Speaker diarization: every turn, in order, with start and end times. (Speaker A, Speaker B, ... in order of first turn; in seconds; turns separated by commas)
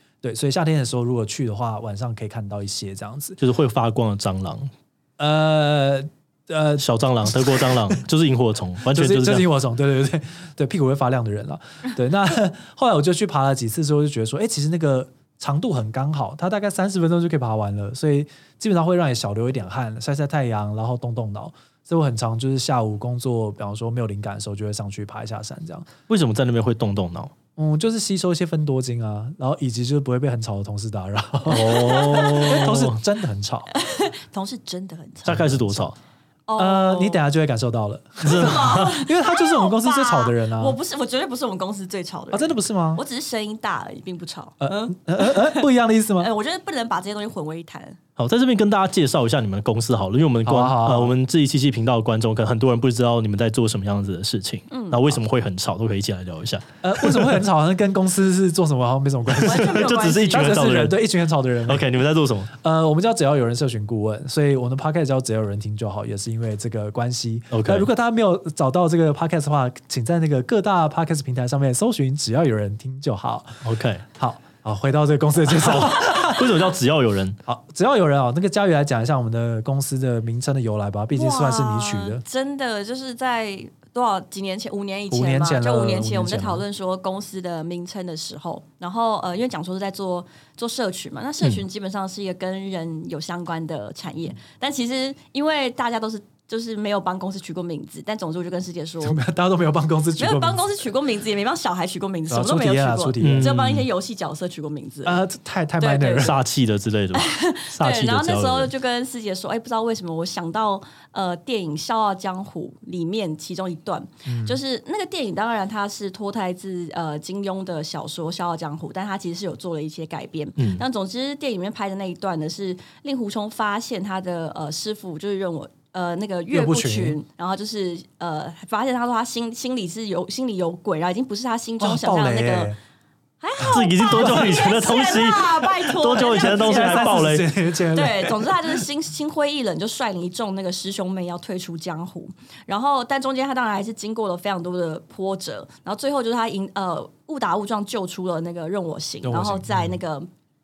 Speaker A: 0.2-3.4, Speaker B: 3.4-4.7, Speaker A: 5.2-8.0, Speaker B: 6.8-9.4, Speaker A: 8.9-25.9, Speaker B: 26.1-27.3, Speaker A: 27.6-33.7, Speaker C: 31.5-32.6, Speaker B: 31.5-33.0, Speaker C: 33.7-35.9, Speaker B: 35.2-36.0, Speaker C: 36.5-37.2, Speaker A: 36.6-40.8, Speaker B: 38.2-38.9, Speaker C: 38.3-45.7, Speaker A: 42.3-43.0, Speaker A: 44.6-46.3, Speaker C: 46.2-48.0, Speaker B: 48.2-57.2, Speaker A: 50.5-51.1, Speaker C: 54.7-55.0, Speaker A: 56.8-61.9, Speaker B: 59.3-61.0, Speaker C: 59.4-60.7, Speaker B: 61.7-62.5, Speaker A: 62.5-73.6, Speaker B: 67.5-67.9, Speaker B: 73.6-74.0, Speaker A: 74.2-76.6, Speaker B: 75.5-77.4, Speaker A: 77.5-82.2, Speaker C: 81.1-99.2, Speaker A: 85.1-86.6, Speaker A: 99.0-100.7, Speaker C: 100.2-105.2, Speaker A: 102.3-103.6, Speaker B: 103.2-103.9, Speaker A: 105.0-106.4, Speaker C: 105.8-106.4, Speaker B: 106.2-108.7, Speaker C: 107.1-132.7, Speaker A: 114.3-114.6, Speaker B: 120.6-120.8, Speaker A: 126.5-127.2, Speaker A: 131.8-132.8, Speaker C: 133.4-137.4, Speaker B: 133.6-137.5, Speaker A: 134.2-134.7, Speaker A: 136.1-138.8, Speaker C: 137.9-150.3, Speaker A: 149.2-150.0